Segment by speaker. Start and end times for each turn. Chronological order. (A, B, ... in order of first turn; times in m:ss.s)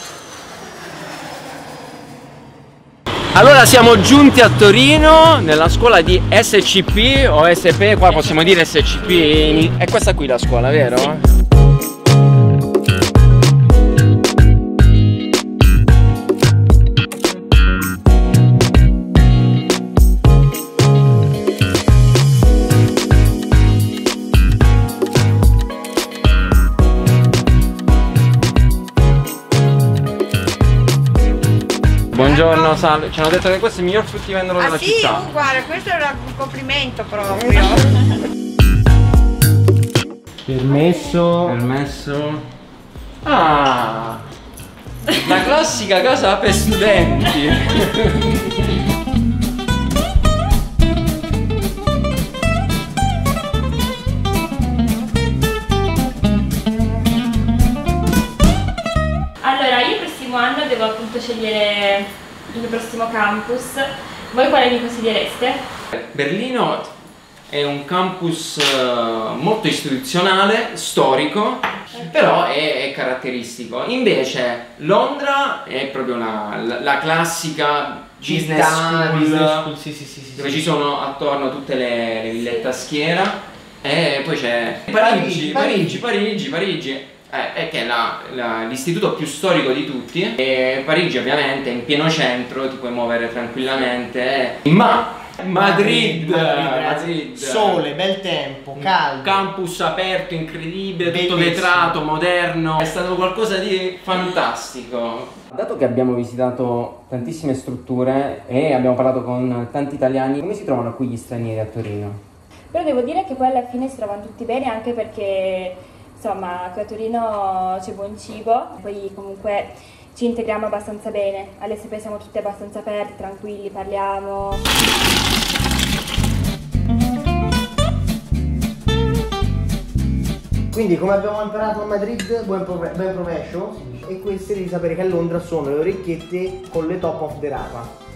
0:03.3-0:11.2 A
0:08.1-0:09.7 B
0:32.1-0:35.3 A
0:32.2-0:32.7 C
0:34.6-0:38.0 C
0:40.4-0:41.6 D
0:41.4-0:42.4 A
0:43.2-0:44.2 A
0:45.1-0:48.6 A
0:59.4-1:05.6 B
1:06.0-1:06.9 A
1:07.5-1:19.7 A
1:18.2-1:20.7 D
1:20.4-1:37.8 A
1:24.9-1:26.0 D
1:35.4-1:39.4 D
1:38.8-1:52.2 A
1:41.0-1:42.0 D
1:52.7-2:04.7 B
2:10.7-2:17.9 D